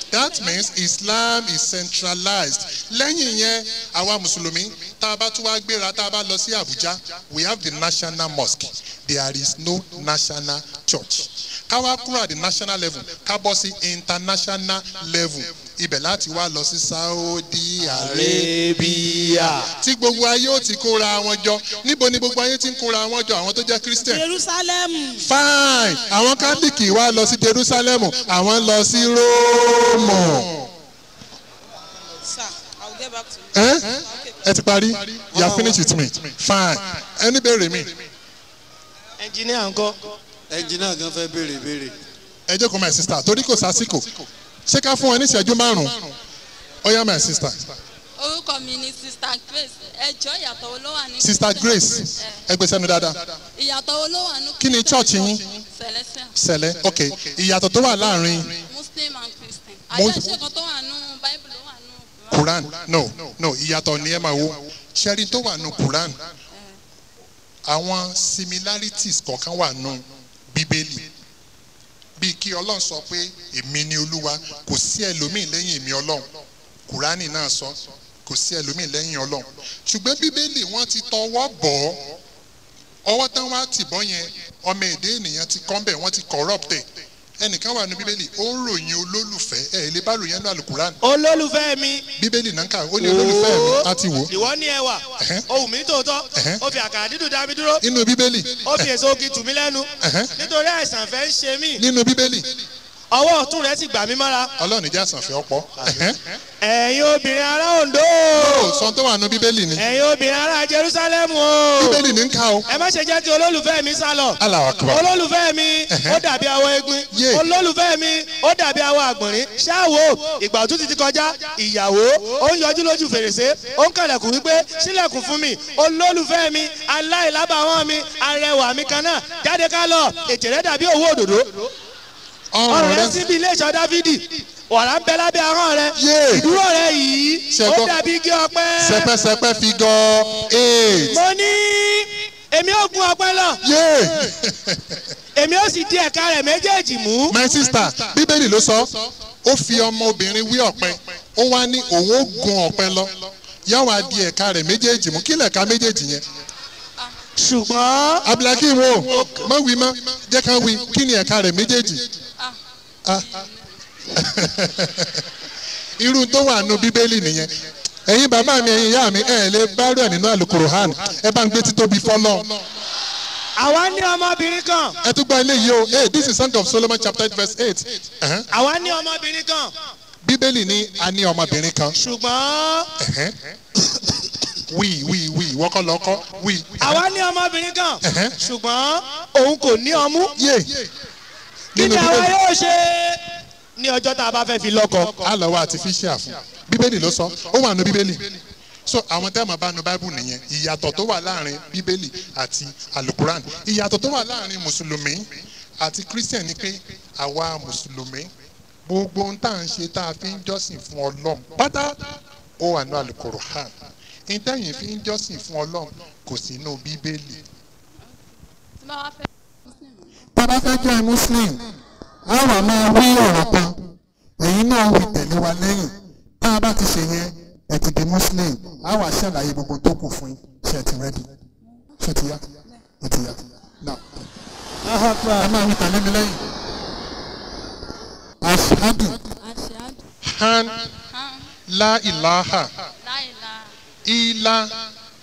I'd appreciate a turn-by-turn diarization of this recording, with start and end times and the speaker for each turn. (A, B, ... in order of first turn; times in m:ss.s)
0:00.1-0:18.5 A
0:17.8-0:19.7 B
0:19.8-0:24.2 A
0:24.0-0:25.3 C
0:25.2-0:30.6 A
0:32.2-0:34.4 C
0:33.5-0:38.0 A
0:35.3-0:35.8 D
0:39.2-0:40.2 B
0:40.5-0:41.9 D
0:42.5-0:44.1 A
0:44.7-0:46.1 A
0:46.8-0:47.6 A
0:48.2-0:52.4 E
0:51.2-0:53.3 A
0:53.6-0:56.3 E
0:54.6-0:55.5 A
0:56.4-0:58.6 A
0:58.5-1:02.5 E
0:59.9-1:00.4 A
1:02.3-1:06.2 A
1:07.6-1:11.1 A
1:12.2-1:16.3 A
1:16.9-1:22.2 A
1:23.0-1:26.9 A
1:27.4-1:31.0 A
1:31.0-1:32.0 B
1:32.2-1:34.3 A
1:33.0-1:37.8 B
1:35.2-1:35.4 A
1:36.3-1:36.6 A
1:37.8-1:38.9 A
1:38.6-1:41.8 B
1:40.0-1:40.3 A
1:41.8-1:42.6 A
1:43.1-1:44.5 B
1:44.6-1:46.2 A
1:46.6-1:48.8 B
1:48.3-1:49.8 A
1:49.8-1:52.0 B
1:51.8-1:52.7 A
1:52.7-2:11.7 B
1:54.4-1:55.1 A
1:55.9-1:56.2 A
1:57.1-1:57.4 A
2:12.5-2:13.2 A
2:12.7-2:19.1 B
2:16.0-2:16.5 A
2:17.5-2:17.9 A
2:18.8-2:21.2 A
2:21.1-2:23.6 B
2:23.6-2:25.0 A
2:25.4-2:27.4 B
2:27.3-2:36.2 A
2:37.4-2:38.3 B
2:38.2-2:42.0 A
2:39.0-2:39.5 B
2:43.0-2:43.5 A
2:43.1-2:43.6 E
2:44.1-2:45.2 A
2:46.0-2:47.5 A
2:48.0-2:52.6 A
2:53.6-2:55.0 B
2:55.0-2:58.4 A
2:58.5-2:59.7 B
3:00.2-3:02.0 A
3:01.9-3:02.9 B
3:03.0-3:03.4 A
3:04.7-3:07.0 A
3:06.8-3:10.4 B
3:08.0-3:08.4 A
3:10.4-3:10.9 A
3:11.7-3:12.3 A
3:11.7-3:13.2 B
3:13.8-3:15.3 B
3:15.2-3:28.3 A
3:28.8-3:33.7 A
3:34.3-3:37.4 A
3:38.8-3:40.1 E
3:40.3-3:41.6 A
3:42.2-3:43.8 A
3:44.4-3:51.3 A
3:52.0-3:52.4 A
3:53.0-3:54.1 A
3:54.8-3:55.5 B
3:55.3-3:56.4 A
3:58.4-3:59.2 A
3:59.2-4:00.0 E
4:00.2-4:00.9 A
4:01.1-4:01.5 E
4:01.7-4:02.7 A
4:03.0-4:03.7 E
4:04.0-4:04.8 A